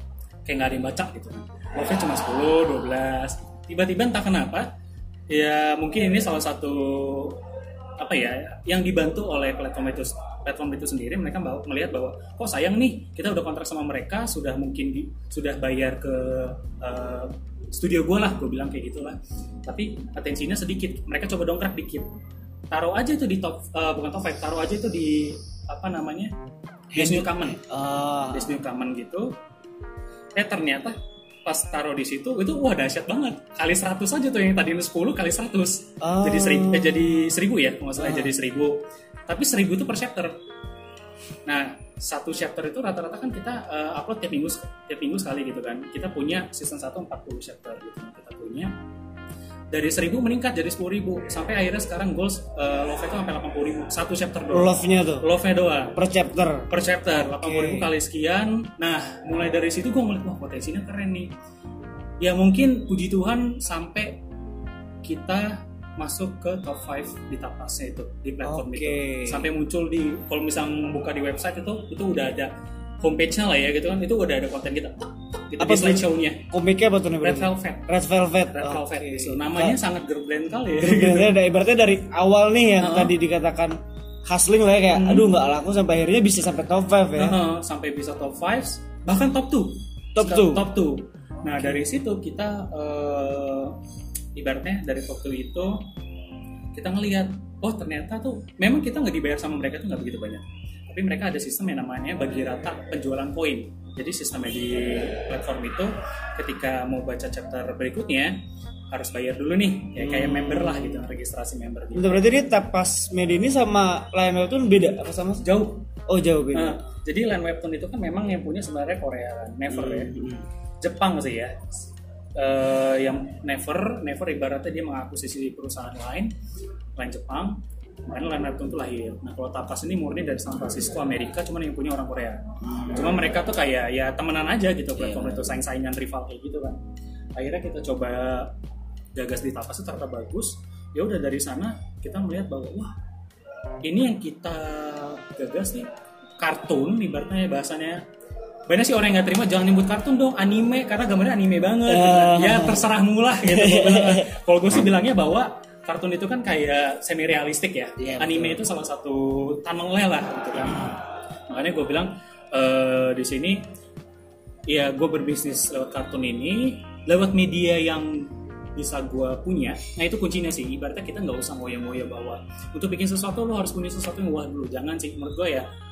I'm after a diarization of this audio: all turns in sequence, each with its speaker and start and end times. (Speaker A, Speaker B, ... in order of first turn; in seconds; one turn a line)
Speaker A: 0.5-4.7
Speaker A: 5.3-7.4
Speaker A: 8.0-22.1
Speaker A: 22.7-26.3
Speaker B: 26.9-28.5
Speaker A: 26.9-27.6
Speaker A: 28.3-29.3
Speaker A: 30.3-40.3
Speaker B: 36.0-37.0
Speaker B: 38.0-38.3
Speaker A: 41.5-48.7
Speaker A: 49.7-56.0
Speaker B: 54.5-55.2
Speaker B: 55.9-56.7
Speaker A: 56.7-61.3
Speaker B: 57.2-57.9
Speaker A: 62.2-64.2
Speaker A: 65.0-76.4
Speaker B: 68.4-69.5
Speaker B: 75.6-79.8
Speaker A: 77.2-77.9
Speaker A: 78.5-81.3
Speaker B: 80.8-87.4
Speaker A: 82.8-83.1
Speaker A: 84.9-85.3
Speaker A: 87.2-93.8
Speaker B: 90.1-90.6
Speaker A: 94.3-95.8
Speaker A: 96.7-108.3
Speaker A: 108.9-112.3
Speaker B: 110.0-111.0
Speaker B: 111.9-115.4
Speaker A: 115.4-115.8
Speaker B: 116.1-116.8
Speaker A: 116.5-120.1
Speaker B: 119.7-120.5
Speaker A: 120.8-126.3
Speaker A: 127.0-136.8
Speaker B: 132.6-133.1
Speaker B: 135.0-135.5
Speaker A: 137.4-138.5
Speaker A: 139.1-142.9
Speaker A: 143.8-145.9
Speaker A: 146.4-148.0
Speaker A: 148.7-160.9
Speaker B: 151.9-154.3
Speaker B: 158.0-158.6
Speaker A: 161.5-163.6
Speaker A: 164.7-175.7